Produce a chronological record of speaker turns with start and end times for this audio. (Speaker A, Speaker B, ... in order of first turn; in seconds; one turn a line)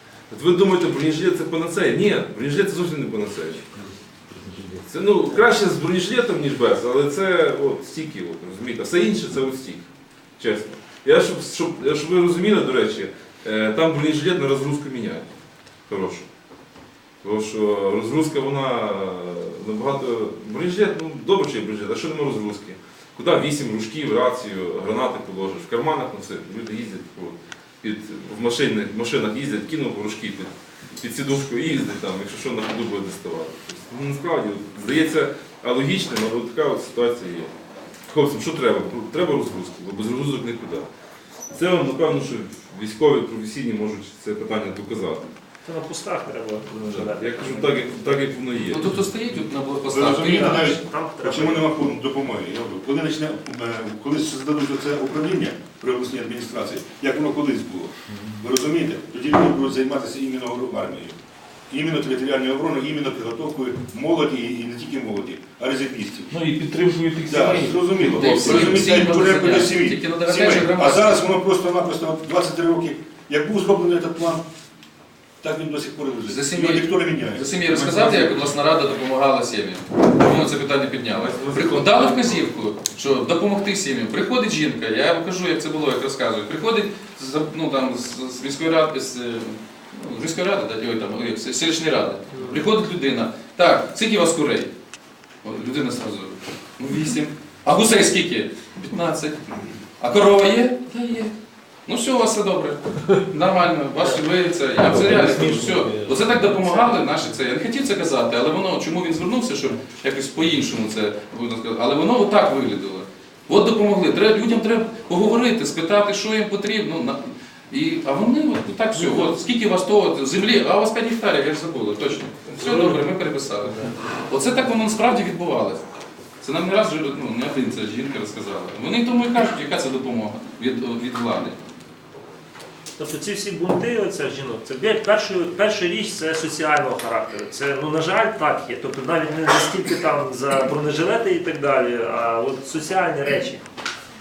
Speaker A: 0.3-3.6
Speaker A: 4.7-15.3
Speaker A: 15.9-16.3
Speaker A: 17.2-37.5
Speaker A: 38.1-40.9
Speaker A: 41.5-45.3
Speaker B: 45.6-47.8
Speaker A: 46.8-48.9
Speaker C: 48.7-50.8
Speaker D: 49.9-61.2
Speaker B: 50.6-51.7
Speaker D: 61.7-66.4
Speaker E: 66.3-68.8
Speaker D: 67.3-74.4
Speaker C: 68.0-71.2
Speaker D: 75.4-78.5
Speaker C: 76.2-94.7
Speaker A: 81.1-82.5
Speaker C: 95.4-99.4
Speaker C: 100.0-101.3
Speaker C: 101.8-125.8
Speaker E: 104.8-106.9
Speaker C: 126.4-131.6
Speaker B: 133.0-143.6